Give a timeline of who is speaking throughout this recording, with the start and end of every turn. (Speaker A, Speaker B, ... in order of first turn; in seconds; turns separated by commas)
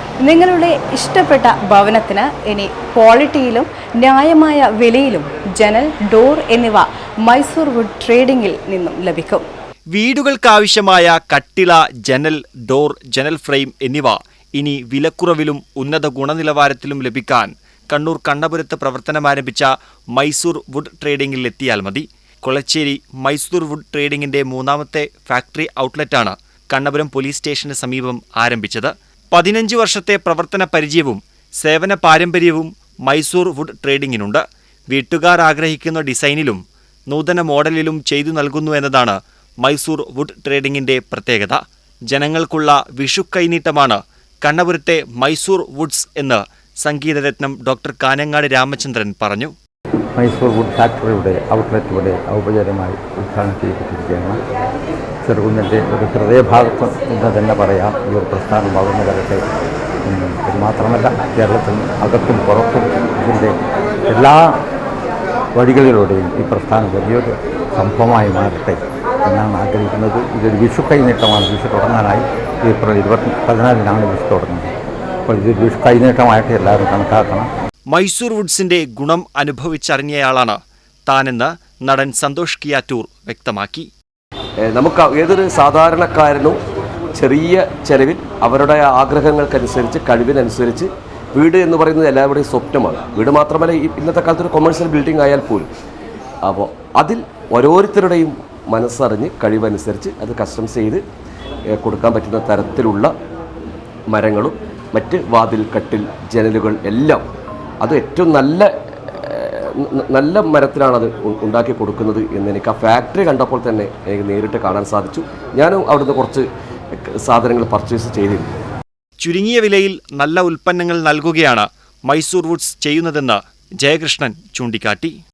Speaker A: 0.2-9.4, Speaker B: 9.9-41.6, Speaker B: 42.1-49.5, Speaker C: 50.2-54.4, Speaker C: 55.2-59.5, Speaker C: 60.1-63.6, Speaker C: 64.1-64.5, Speaker C: 65.6-74.7, Speaker C: 75.3-77.5, Speaker B: 77.9-83.9, Speaker D: 84.6-86.6, Speaker D: 87.1-95.7, Speaker D: 96.4-101.0, Speaker D: 101.7-103.1, Speaker D: 104.1-107.2, Speaker D: 107.8-118.5, Speaker B: 119.2-125.1